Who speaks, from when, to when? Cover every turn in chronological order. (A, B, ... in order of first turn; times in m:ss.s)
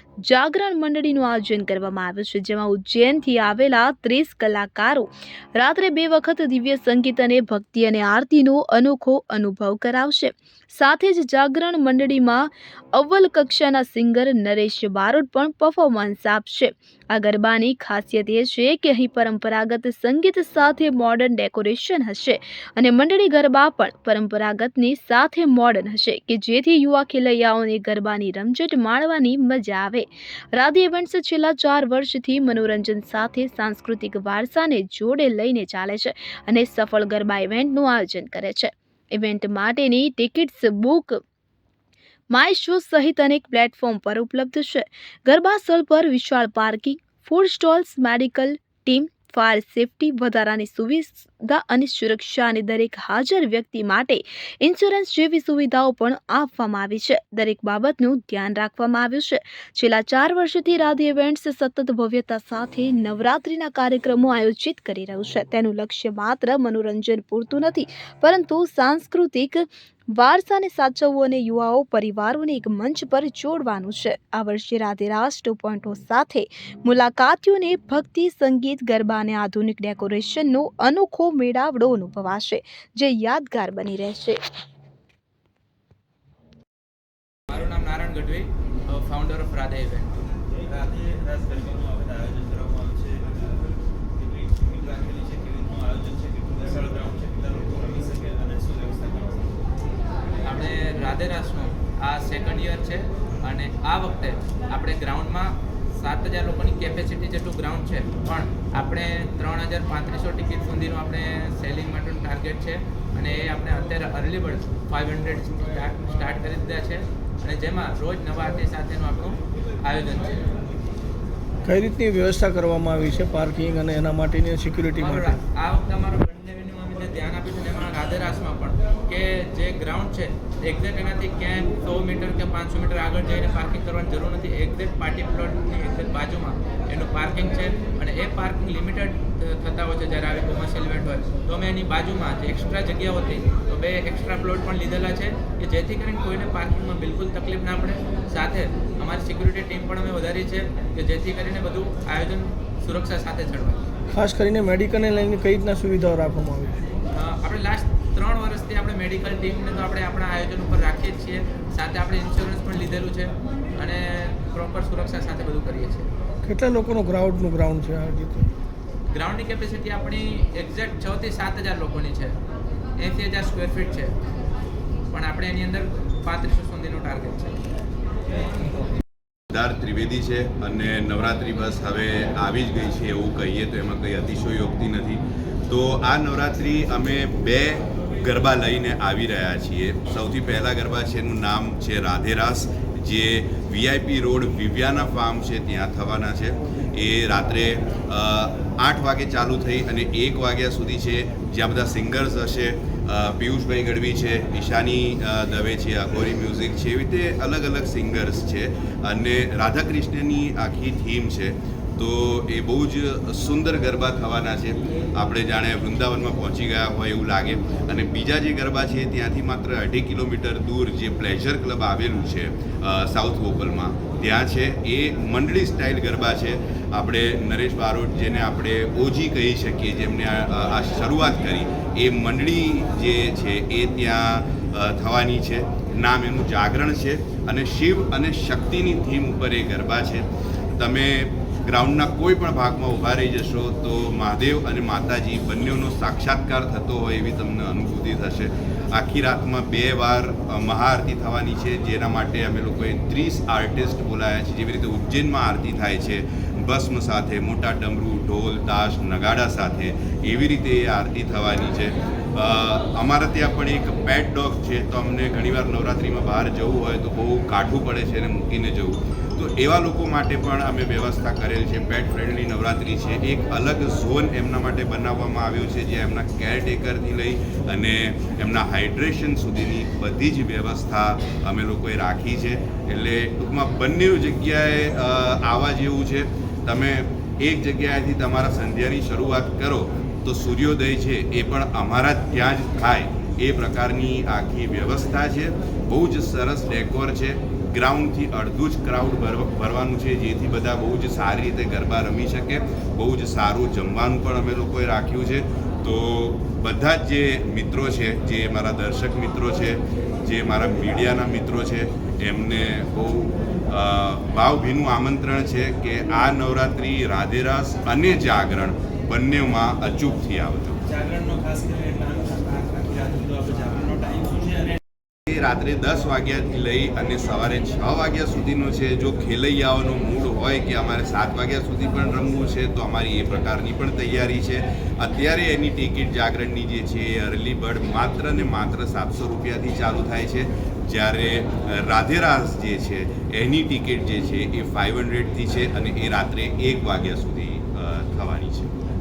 0:00.2-0:41.2 A
0:42.3-1:24.4 A
1:27.5-1:30.2 B
1:30.6-1:33.5 C
1:34.2-1:39.5 C
1:40.4-2:00.5 B
2:01.6-2:05.4 D
2:05.0-2:33.8 B
2:34.1-2:36.9 D
2:37.1-2:46.1 B
2:46.4-2:48.5 D
2:49.1-2:52.3 B
2:53.0-2:54.2 B
2:55.1-2:57.6 B
2:59.5-5:20.8 E
5:20.9-5:24.8 C
5:25.3-5:48.7 E